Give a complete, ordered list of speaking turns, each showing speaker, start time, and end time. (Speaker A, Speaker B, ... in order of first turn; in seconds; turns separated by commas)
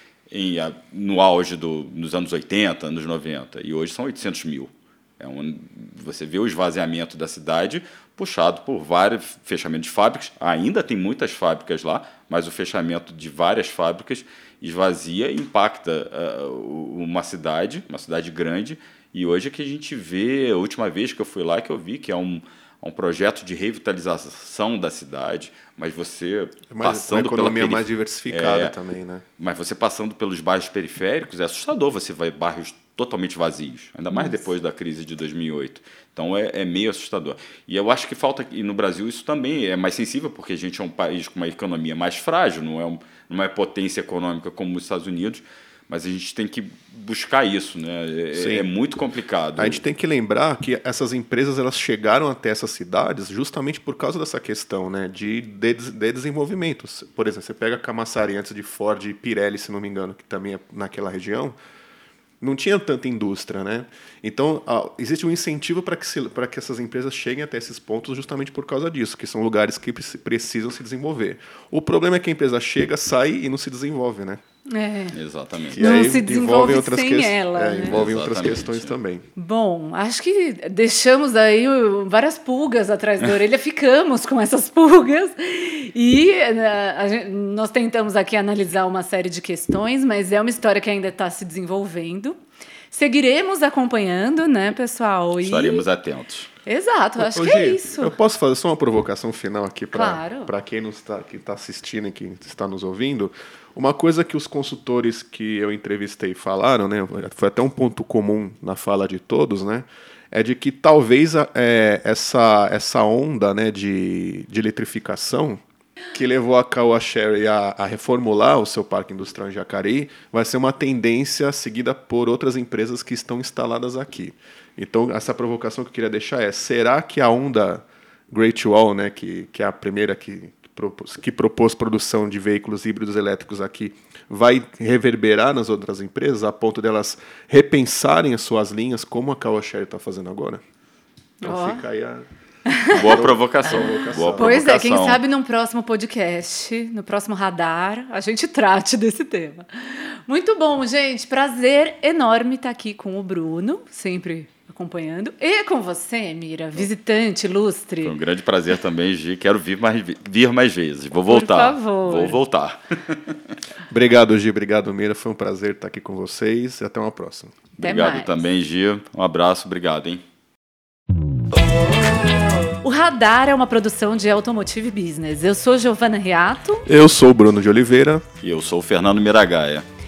Speaker A: 0.3-28.8, Speaker B: 26.7-29.2, Speaker A: 29.4-49.8, Speaker C: 34.1-34.4, Speaker B: 48.3-48.7, Speaker B: 49.6-61.5, Speaker B: 62.4-74.4, Speaker C: 74.7-75.2, Speaker A: 75.2-76.2, Speaker B: 75.7-79.3, Speaker C: 75.8-78.1, Speaker A: 77.9-79.0, Speaker C: 79.4-92.4, Speaker C: 92.9-95.8, Speaker A: 95.4-96.5, Speaker C: 96.7-98.2, Speaker B: 97.2-115.6, Speaker C: 99.9-100.5, Speaker B: 116.1-140.6, Speaker C: 141.4-141.8, Speaker B: 141.4-142.2, Speaker C: 142.7-158.2, Speaker B: 142.9-144.6, Speaker A: 142.9-145.2, Speaker A: 158.0-163.4, Speaker C: 161.3-162.4, Speaker B: 163.9-167.6, Speaker C: 167.8-168.4, Speaker A: 167.8-170.2, Speaker C: 172.8-176.9, Speaker B: 176.9-178.2, Speaker A: 178.4-179.8